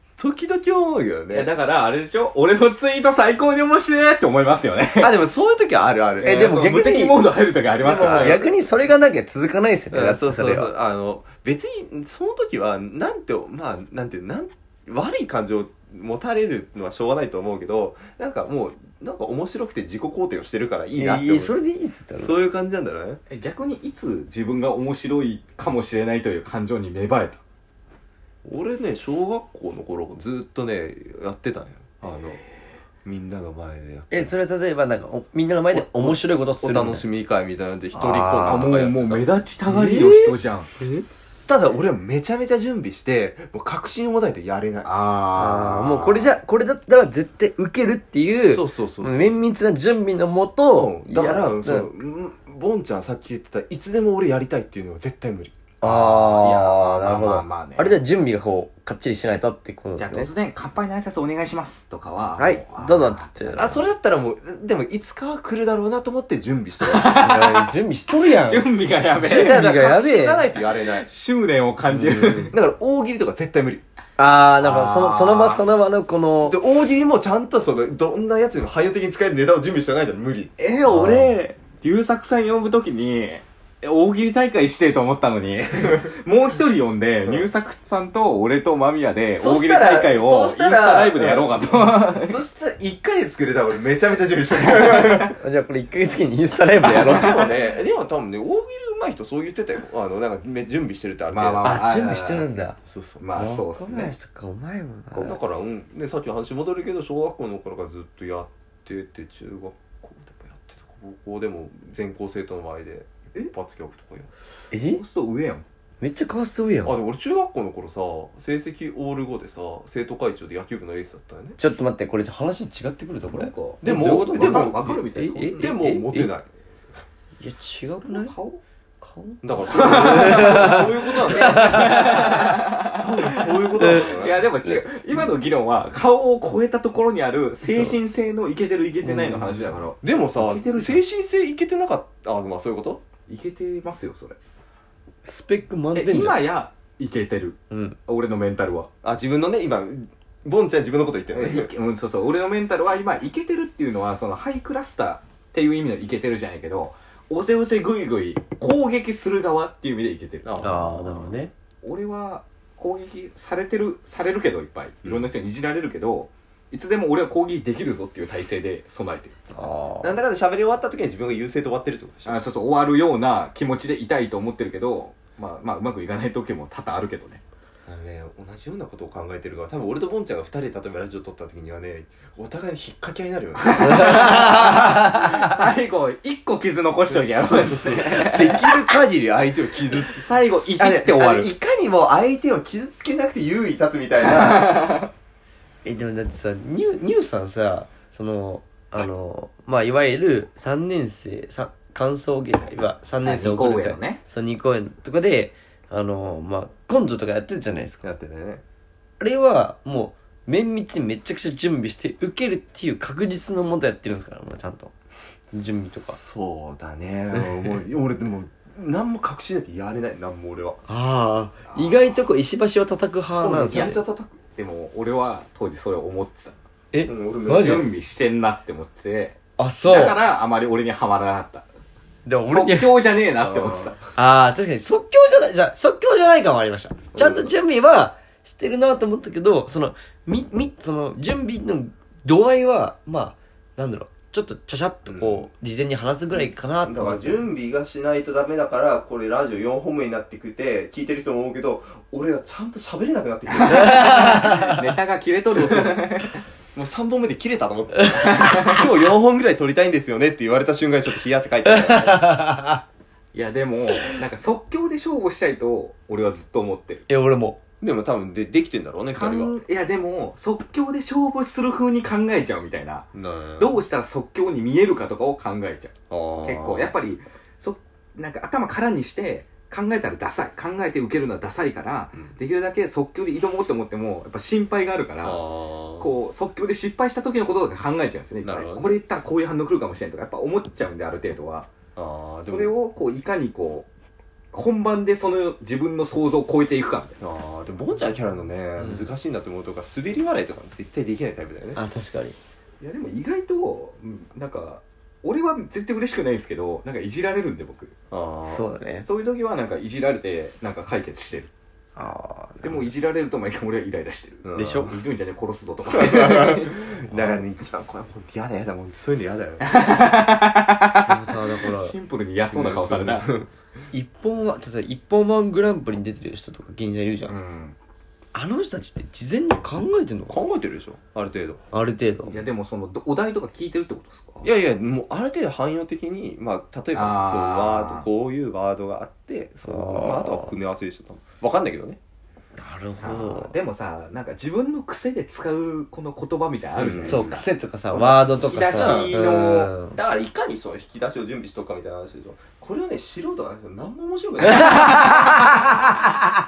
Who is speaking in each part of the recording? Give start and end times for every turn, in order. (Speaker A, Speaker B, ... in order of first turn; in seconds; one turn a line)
Speaker A: 0.2-1.5
Speaker B: 1.3-5.1
Speaker A: 5.0-6.5
Speaker B: 6.2-8.4
Speaker C: 6.2-7.2
Speaker A: 7.8-8.4
Speaker C: 7.8-10.7
Speaker A: 9.9-21.6
Speaker C: 21.0-22.4
Speaker A: 22.2-23.2
Speaker B: 23.3-27.4
Speaker A: 28.4-32.4
Speaker A: 33.0-34.3
Speaker C: 34.1-37.0
Speaker A: 35.7-39.3
Speaker C: 37.9-38.7
Speaker B: 38.4-40.7
Speaker C: 39.7-41.1
Speaker A: 41.5-44.9
Speaker B: 44.8-46.3
Speaker C: 45.4-51.9
Speaker A: 48.4-49.4
Speaker A: 50.8-55.6
Speaker C: 55.8-60.3
Speaker B: 55.8-58.0
Speaker B: 60.0-63.6
Speaker C: 62.4-63.9
Speaker A: 63.6-67.2
Speaker B: 66.8-67.7
Speaker C: 67.2-70.5
Speaker B: 68.2-69.6
Speaker A: 69.2-71.1
Speaker B: 70.5-72.5
Speaker A: 72.0-73.8
Speaker C: 72.2-72.5
Speaker C: 74.2-76.6
Speaker B: 74.6-75.6
Speaker A: 76.5-80.5
Speaker B: 80.6-92.4
Speaker C: 80.9-81.3
Speaker A: 89.4-95.4
Speaker B: 95.0-95.3
Speaker C: 95.4-97.4
Speaker B: 96.9-97.5
Speaker A: 96.9-101.8
Speaker B: 101.3-102.5
Speaker C: 101.6-102.8
Speaker A: 102.8-103.2
Speaker B: 103.2-104.1
Speaker C: 103.3-105.4
Speaker B: 105.1-105.4
Speaker A: 105.2-114.3
Speaker C: 114.7-115.0
Speaker B: 114.8-115.7
Speaker C: 116.0-117.0
Speaker A: 116.8-121.6
Speaker C: 121.6-126.3
Speaker B: 123.3-125.8
Speaker A: 123.8-125.0
Speaker A: 125.5-126.5
Speaker C: 127.4-128.3
Speaker B: 127.9-128.6
Speaker C: 129.0-132.5
Speaker A: 129.4-134.5
Speaker B: 129.7-141.0
Speaker C: 133.8-134.1
Speaker C: 137.7-137.9
Speaker C: 139.1-139.6
Speaker A: 140.0-143.0
Speaker B: 143.3-144.4
Speaker C: 145.2-146.4
Speaker B: 145.9-148.9
Speaker C: 147.7-148.0
Speaker A: 149.0-151.7
Speaker B: 151.3-160.7
Speaker A: 160.4-161.4
Speaker C: 160.6-161.5
Speaker B: 161.8-169.4
Speaker C: 169.5-170.2
Speaker A: 170.0-172.4
Speaker B: 172.2-177.4
Speaker A: 177.9-184.5
Speaker B: 183.6-188.9
Speaker C: 183.8-185.3
Speaker A: 187.1-194.8
Speaker B: 189.9-191.5
Speaker B: 194.2-195.1
Speaker C: 195.8-208.0
Speaker B: 203.2-204.2
Speaker A: 208.0-208.6
Speaker C: 209.2-214.9
Speaker C: 215.5-216.2
Speaker A: 215.7-220.8
Speaker C: 220.9-224.0
Speaker B: 221.7-222.2
Speaker A: 223.4-224.4
Speaker B: 223.7-224.0
Speaker B: 224.6-226.6
Speaker C: 226.9-227.9
Speaker A: 227.1-227.9
Speaker B: 227.5-231.7
Speaker C: 229.6-230.2
Speaker C: 232.3-232.9
Speaker B: 232.4-234.0
Speaker A: 233.4-234.1
Speaker C: 234.2-247.4
Speaker A: 237.2-237.5
Speaker A: 245.1-245.5
Speaker A: 246.3-254.3
Speaker B: 253.5-256.4
Speaker C: 253.7-254.8
Speaker A: 255.5-256.1
Speaker A: 256.8-262.3
Speaker C: 258.0-258.4
Speaker B: 258.2-258.8
Speaker C: 261.6-262.8
Speaker B: 263.3-267.0
Speaker C: 267.1-267.6
Speaker A: 267.8-269.5
Speaker B: 269.1-275.9
Speaker A: 273.1-273.8
Speaker A: 276.1-276.9
Speaker B: 276.4-285.4
Speaker A: 285.2-286.1
Speaker B: 286.0-291.7
Speaker A: 288.4-289.0
Speaker A: 292.0-292.8
Speaker B: 292.5-293.9
Speaker B: 294.5-297.2
Speaker A: 297.2-301.8
Speaker C: 298.8-299.1
Speaker C: 301.8-302.4
Speaker B: 302.8-307.9
Speaker A: 308.1-308.6
Speaker C: 308.5-309.1
Speaker B: 309.0-311.5
Speaker C: 312.0-312.9
Speaker B: 312.6-317.4
Speaker A: 314.4-314.9
Speaker C: 314.6-314.9
Speaker A: 315.9-319.8
Speaker B: 319.6-323.3
Speaker C: 321.1-321.9
Speaker A: 322.5-323.5
Speaker C: 323.9-327.4
Speaker B: 327.3-327.8
Speaker C: 328.3-330.4
Speaker A: 330.3-331.6
Speaker C: 331.7-332.4
Speaker B: 332.3-334.5
Speaker A: 334.4-342.0
Speaker B: 336.9-338.1
Speaker C: 339.6-340.6
Speaker C: 342.6-343.5
Speaker B: 343.0-349.7
Speaker A: 346.8-347.4
Speaker C: 347.1-350.0
Speaker A: 348.7-349.2
Speaker A: 349.9-355.1
Speaker C: 354.5-355.8